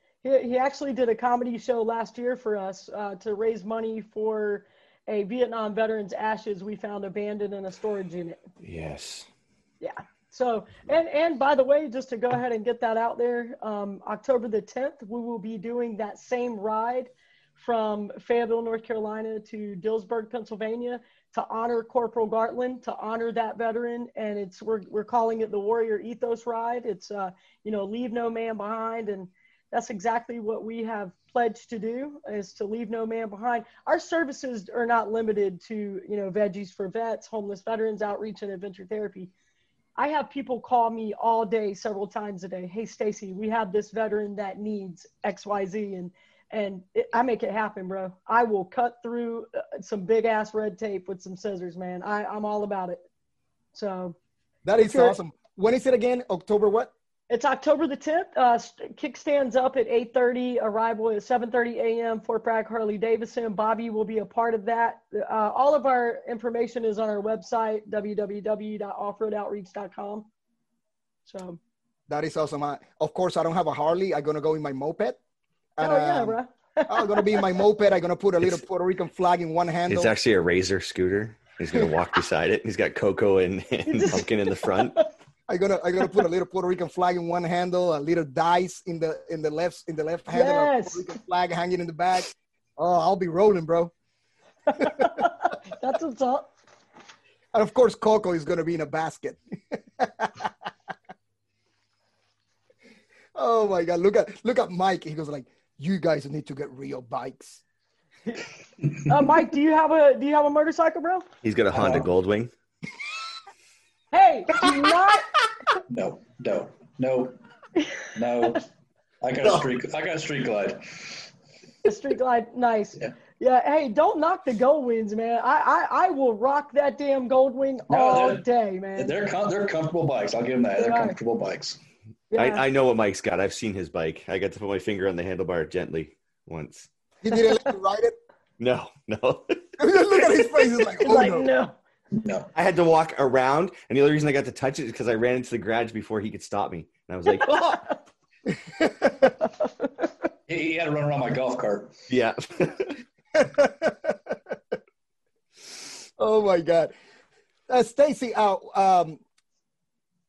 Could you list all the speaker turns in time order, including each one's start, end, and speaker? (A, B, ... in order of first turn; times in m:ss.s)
0:00.2-0:08.4 A
0:08.6-0:09.3 B
0:09.8-0:39.3 A
0:40.0-0:53.0 A
0:53.7-0:54.2 A
0:54.6-0:56.9 C
0:54.8-0:55.1 A
0:57.3-1:10.3 A
1:11.3-1:11.6 A
1:12.1-1:15.2 C
1:15.8-1:16.4 C
1:15.8-1:17.6 A
1:16.9-1:20.1 C
1:19.9-1:25.0 B
1:23.9-1:25.0 A
1:25.5-1:33.9 C
1:30.3-1:31.1 A
1:34.7-1:36.5 A
1:34.8-1:35.2 C
1:37.5-1:40.5 C
1:43.3-1:47.6 C
1:48.3-1:51.2 A
1:51.4-1:52.5 B
1:51.7-1:52.1 D
1:54.1-1:55.3 A
1:55.9-1:57.4 D
1:58.1-1:58.7 D
1:59.2-2:01.3 D
2:01.8-2:09.1 A
2:07.9-2:08.4 D
2:09.0-2:11.8 D
2:10.8-2:11.2 A
2:12.3-2:12.6 A
2:12.4-2:16.9 B
2:17.2-2:18.2 C
2:18.6-2:19.8 B
2:19.8-2:21.5 C
2:20.6-2:21.8 A
2:22.2-2:22.5 D
2:22.5-2:27.9 B
2:28.7-2:29.3 C
2:30.5-2:31.9 D
2:32.1-2:33.0 B
2:33.3-2:34.3 C
2:36.2-2:36.9 C
2:37.7-2:39.2 C